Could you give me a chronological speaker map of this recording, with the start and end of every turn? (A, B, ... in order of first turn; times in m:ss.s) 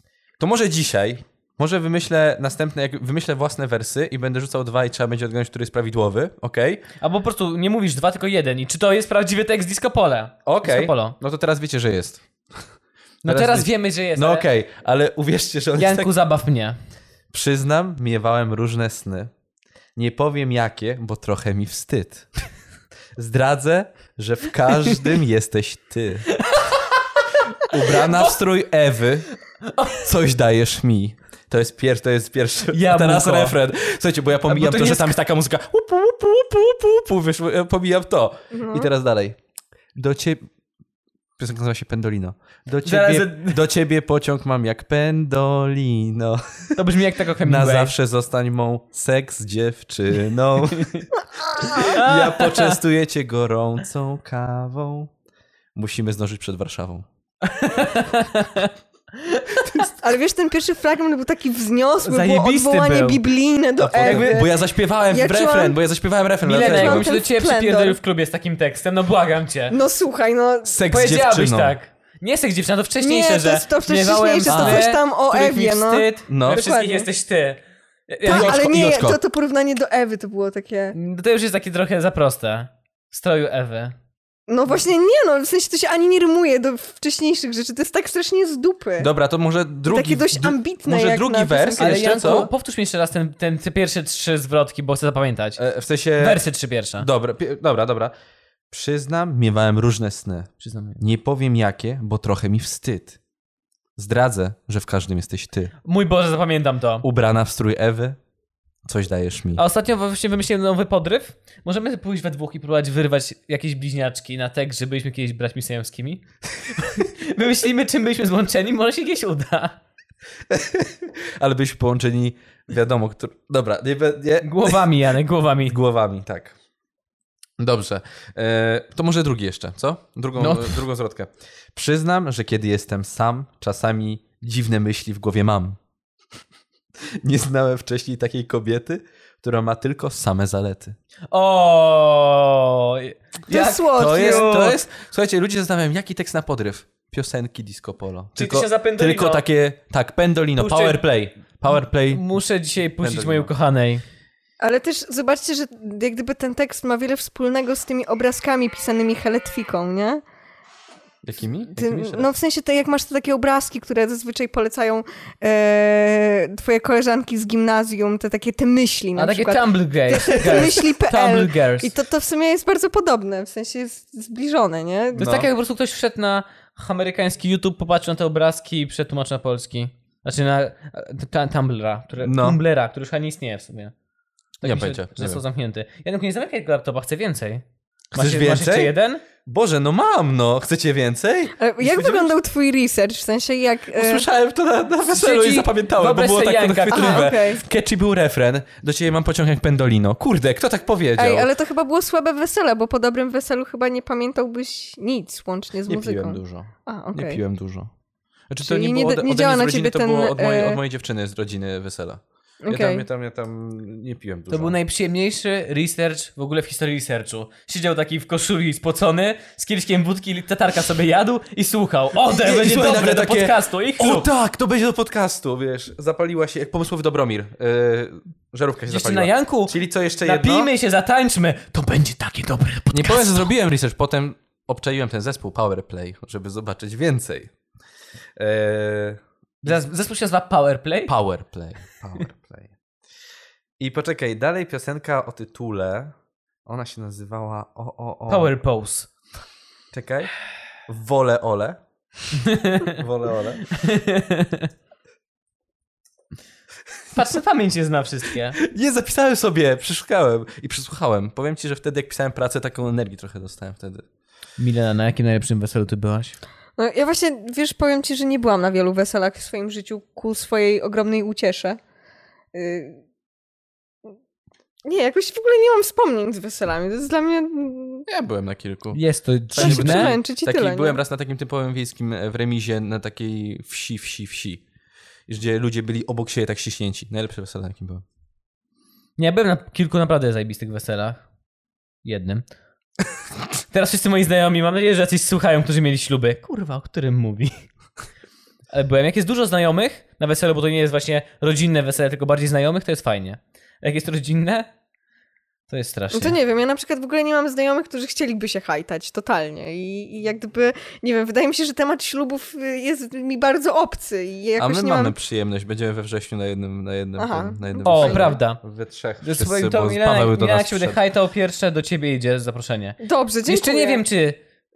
0:00.4-0:06.8 A
0:07.0-0:11.2 B
0:10.4-0:12.2 A
0:13.2-0:14.4 B
0:13.2-0:16.1 A
0:15.8-0:16.8 B
0:17.3-0:19.3 A
0:20.0-0:22.3 A
0:23.2-0:26.3 A
0:26.3-0:28.3 B
0:27.6-0:29.2 A
0:29.6-0:30.1 B
0:30.0-0:39.4 A
0:32.7-0:33.6 B
0:34.5-0:35.1 B
0:38.5-0:38.9 C
0:39.9-0:40.5 A
0:41.4-0:46.8 A
0:42.8-0:43.6 B
0:46.8-0:47.9 B
0:47.4-0:51.0 A
0:50.7-0:51.1 B
0:51.6-0:52.8 B
0:51.6-0:55.1 A
0:55.7-0:57.0 A
0:57.4-0:59.9 B
1:00.0-1:05.8 C
1:02.0-1:03.2 B
1:03.8-1:07.1 A
1:04.0-1:04.4 B
1:06.4-1:09.8 B
1:06.5-1:08.0 C
1:09.7-1:10.8 C
1:10.6-1:11.8 A
1:10.9-1:18.6 B
1:13.0-1:17.1 C
1:14.5-1:14.8 A
1:16.3-1:16.7 A
1:18.2-1:20.9 C
1:18.2-1:19.2 A
1:20.9-1:23.9 B
1:24.5-1:29.1 C
1:29.0-1:32.5 A
1:29.9-1:32.3 C
1:31.8-1:35.6 B
1:35.6-1:36.4 A
1:36.2-1:37.1 B
1:37.0-1:38.1 A
1:38.7-1:43.2 A
1:40.6-1:41.0 B
1:44.0-1:45.7 A
1:45.8-1:47.0 B
1:47.0-1:48.2 A
1:48.8-1:49.6 A
1:49.6-1:59.8 B
2:00.5-2:04.9 A
2:04.4-2:05.8 B
2:05.7-2:06.5 A
2:07.6-2:15.8 A
2:10.4-2:10.8 B
2:17.2-2:21.0 A
2:21.3-2:24.8 B
2:23.5-2:24.6 C
2:23.9-2:32.2 A
2:28.4-2:29.4 B
2:30.6-2:31.0 B
2:32.1-2:34.0 B
2:33.0-2:33.5 A
2:34.6-2:40.2 C
2:41.2-2:42.3 A
2:41.8-2:55.4 C
2:49.2-2:51.9 B
2:55.1-3:03.9 B
2:55.2-2:55.5 A
3:02.2-3:02.6 A
3:04.6-3:09.2 B
3:04.6-3:05.4 A
3:08.1-3:12.3 A
3:11.6-3:14.2 C
3:13.9-3:21.5 A
3:15.1-3:17.3 B
3:16.9-3:17.6 C
3:21.2-3:27.4 C
3:25.9-3:27.9 A
3:28.5-3:34.8 A
3:28.6-3:30.8 C
3:32.6-3:33.0 C
3:34.5-3:44.3 B
3:42.2-3:50.7 A
3:48.9-3:53.5 B
3:52.9-3:57.5 A
3:58.4-3:59.8 A
3:59.6-4:01.1 B
4:01.1-4:02.7 A
4:03.8-4:06.1 A
4:06.6-4:08.6 A
4:08.3-4:09.1 B
4:09.9-4:10.3 A
4:10.9-4:11.8 A
4:12.4-4:13.0 B
4:12.9-4:13.6 A
4:13.7-4:14.7 B
4:17.1-4:18.6 B
4:18.6-4:24.0 A
4:24.6-4:26.4 B
4:26.8-4:31.8 C
4:32.5-4:33.0 C
4:34.8-4:38.0 C
4:38.1-4:44.6 A
4:38.9-4:40.1 B
4:39.6-4:41.0 C
4:45.3-4:48.0 A
4:49.2-4:51.2 B
4:52.0-4:52.4 B
4:53.7-4:57.6 B
4:58.7-5:04.7 B
5:05.7-5:06.4 B
5:06.1-5:15.2 C
5:14.6-5:21.0 A
5:17.2-5:18.4 C
5:17.8-5:18.6 B
5:19.2-5:24.4 B
5:23.0-5:24.0 C